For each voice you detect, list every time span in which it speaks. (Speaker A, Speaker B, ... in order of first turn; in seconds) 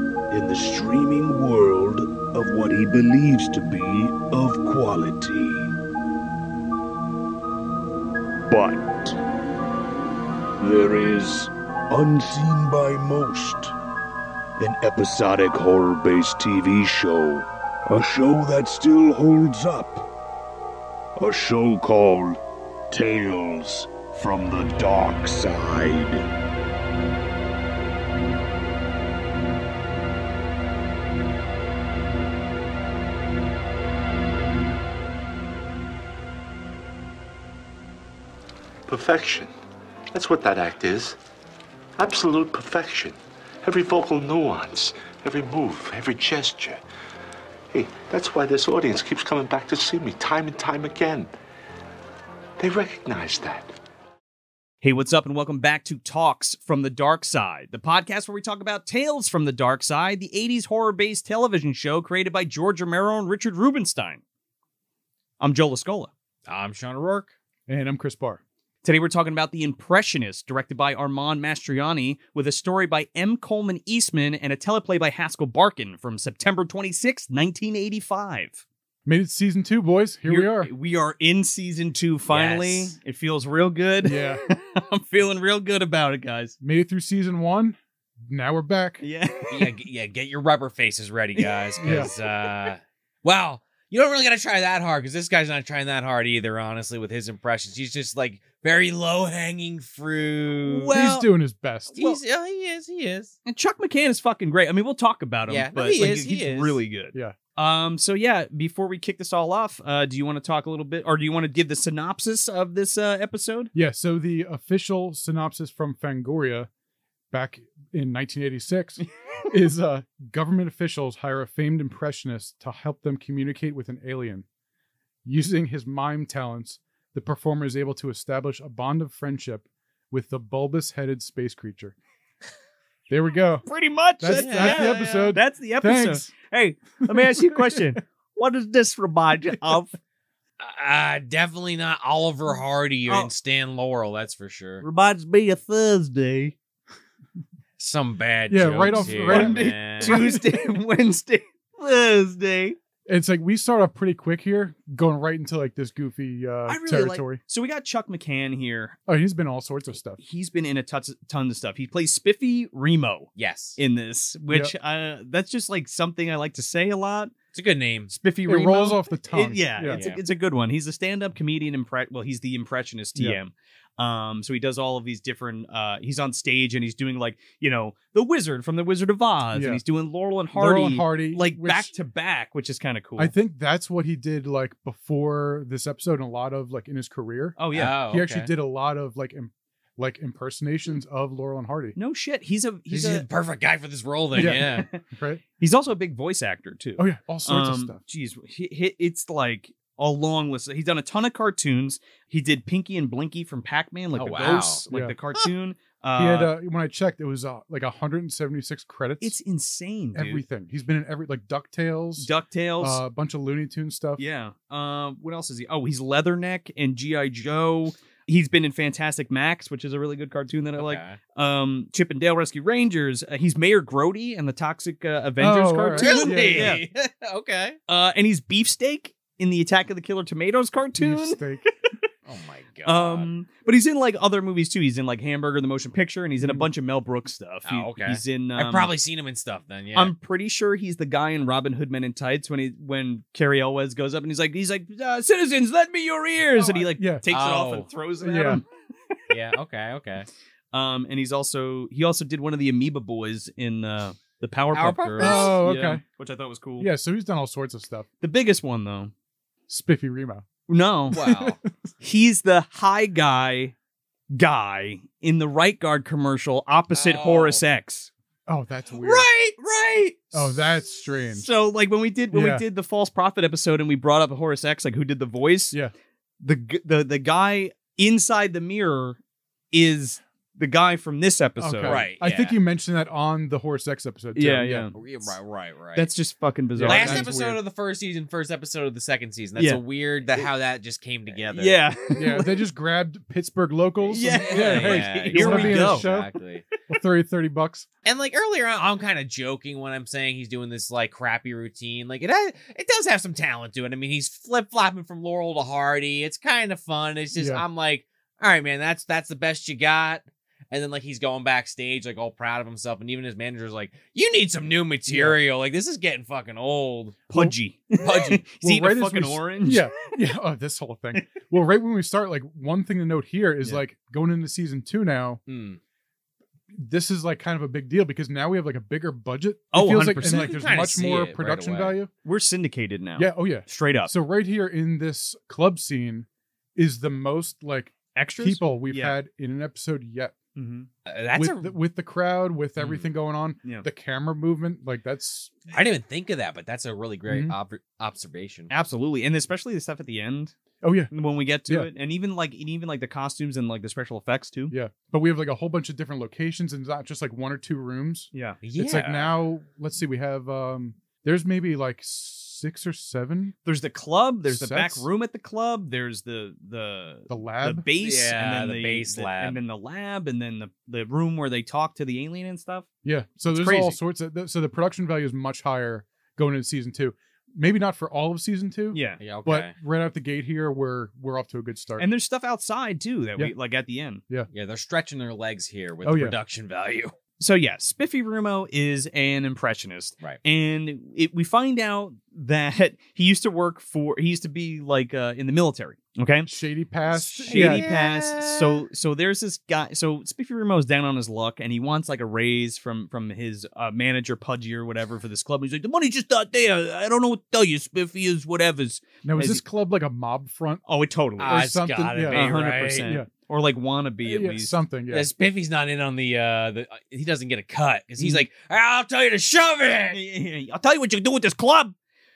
Speaker A: 0.3-5.7, 8.5-9.2, 10.6-13.7, 14.6-20.1, 21.2-22.4, 22.9-26.2
Speaker B: 38.9-39.5, 40.1-41.2, 42.0-46.8, 47.7-51.3, 52.6-53.7
Speaker C: 54.8-64.2, 65.4-66.1, 68.8-78.6, 80.2-86.5, 89.0-89.7, 91.3-92.3, 100.6-101.3, 103.4-113.7, 133.7-140.0, 144.8-146.5, 148.9-152.8, 156.7-159.0, 160.2-167.3, 168.1-183.3, 187.6-188.0, 191.9-193.2, 194.3-195.0, 195.6-206.5, 209.2-210.4, 212.2-213.0, 214.2-226.8, 227.9-231.7, 232.8-238.9, 239.9-248.7, 250.7-256.9, 258.2-259.1, 260.7-261.2, 262.0-263.7, 264.3-268.1, 271.3-275.8, 276.4-279.2, 279.7-282.0, 284.4-284.9, 285.9-287.3, 289.6-289.8, 291.5-292.6, 294.1-296.1, 317.3-319.9, 329.7-330.6, 332.2-334.1, 338.1-339.2, 340.5-340.9, 348.7-350.5, 351.1-354.7, 358.3-358.6, 363.6-372.9, 373.5-374.0, 378.9-379.2, 382.0-384.2, 387.4-396.5, 397.1-409.6, 410.9-411.6, 412.3-414.7, 420.1-421.9
Speaker D: 66.5-67.3, 82.3-82.9, 89.5-100.9, 102.0-103.3, 105.5-106.8, 134.3-135.3, 140.6-144.8, 147.8-150.2, 163.3-163.8, 167.5-168.1, 169.9-170.2, 187.7-188.5, 192.9-194.9, 204.2-204.8, 220.8-221.2, 226.0-227.8, 232.3-233.3, 237.7-240.1, 247.3-247.9, 249.3-250.3, 254.7-255.6, 261.1-261.6, 266.9-267.6, 269.0-270.1, 281.9-282.5, 284.9-286.1, 286.9-291.8, 294.4-296.6, 298.0-317.2, 318.0-318.4, 325.5-325.8, 330.1-331.9, 341.1-341.7, 342.8-343.1, 345.7-348.7, 358.6-359.3, 368.0-369.6, 379.2-379.7, 384.5-387.1, 397.5-398.8, 411.4-413.1, 415.1-420.2
Speaker E: 67.7-68.4, 79.0-80.7, 84.0-84.4, 86.6-89.0, 91.8-92.1, 100.9-102.0, 113.7-116.7, 117.3-124.4, 125.2-131.9, 133.1-133.7, 134.2-136.3, 137.1-137.8, 148.5-150.4, 153.1-157.4, 159.1-160.2, 168.4-170.0, 179.5-179.8, 180.5-181.9, 183.2-192.0, 194.3-195.4, 197.0-198.0, 204.9-205.2, 206.2-209.4, 210.1-214.2, 225.4-226.8, 231.0-231.7, 236.4-236.7, 246.8-247.2, 248.2-248.6, 255.2-256.0, 256.8-258.1, 259.7-260.4, 261.1-261.7, 268.5-269.3, 270.3-271.5, 272.3-272.6, 281.6-284.9, 286.8-287.6, 292.1-296.3, 296.9-297.9, 307.3-307.6, 315.1-315.4, 318.6-325.4, 326.7-332.1, 333.2-340.4, 341.3-345.5, 347.3-347.5, 350.8-351.1, 354.7-363.6, 364.5-365.1, 367.3-367.9, 373.0-382.1, 386.0-386.4, 396.4-397.8, 409.2-410.8, 411.4-413.3, 414.2-415.3